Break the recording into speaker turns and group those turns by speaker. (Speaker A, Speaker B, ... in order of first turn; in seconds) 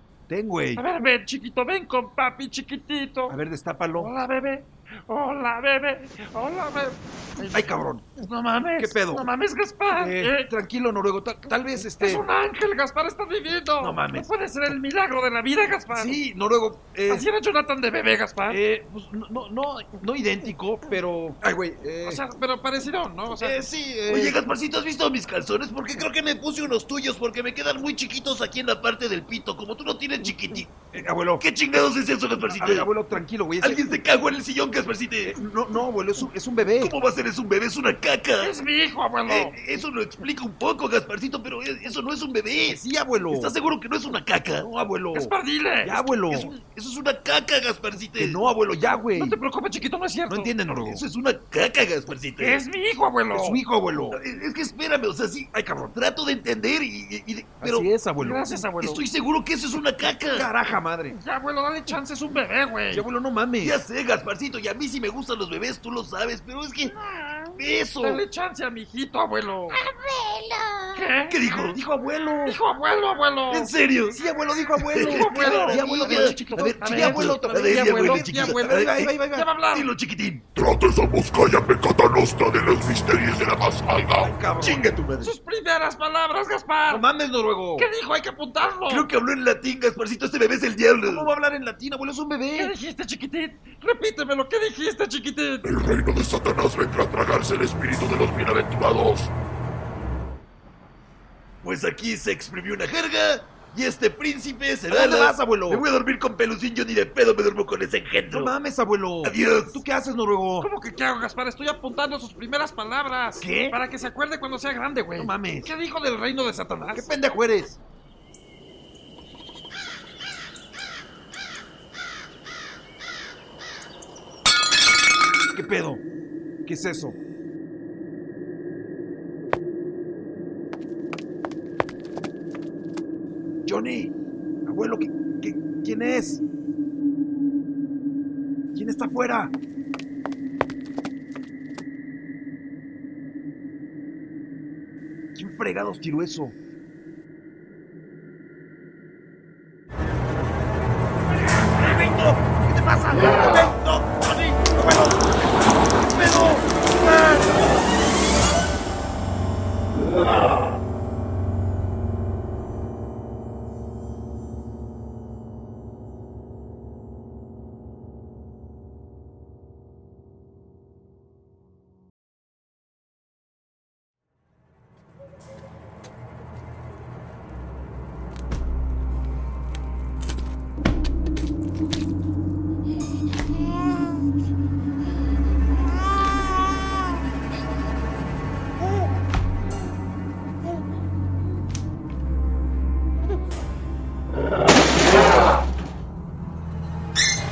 Speaker A: 0.3-0.8, 3.3-4.1, 7.4-8.1, 8.8-9.2, 9.9-12.2, 13.8-14.3, 15.9-17.2, 18.5-22.2, 23.4-24.4, 30.9-31.4, 32.5-33.8, 35.2-36.9, 42.6-43.5, 44.6-46.5, 48.1-49.4, 50.3-51.0, 53.3-54.2, 55.5-55.9, 57.6-58.7, 60.3-61.2, 62.9-63.8, 71.7-72.6, 74.1-79.5, 84.1-85.3, 86.9-87.9, 91.0-92.7, 104.9-105.8, 108.3-110.7, 113.4-113.8, 115.2-115.7, 116.9-117.8, 125.5-126.0, 126.6-127.2, 133.7-134.1, 134.6-136.4, 138.7-139.5, 145.3-146.5, 151.8-155.1, 156.2-156.6
Speaker B: 0.8-3.4, 4.0-10.5, 11.9-16.2, 17.1-18.6, 22.0-23.6, 38.4-39.5, 45.1-46.0, 49.1-50.5, 52.4-53.6, 58.2-59.0, 61.1-63.0, 66.8-69.8, 70.9-71.8, 72.4-73.7, 74.9-79.9, 84.6-87.0, 87.8-89.1, 92.5-95.7, 110.6-117.1
Speaker C: 24.1-30.7, 31.4-32.9, 33.6-35.3, 36.8-38.5, 39.3-44.6, 46.3-48.4, 50.8-52.6, 54.1-57.9, 58.8-60.5, 63.6-66.9, 67.6-68.2, 71.3-71.8, 73.5-74.2, 74.8-79.1, 79.7-80.4, 84.8-85.3, 88.9-91.3, 101.6-108.5, 109.2-109.8
Speaker D: 80.5-84.3, 95.6-99.3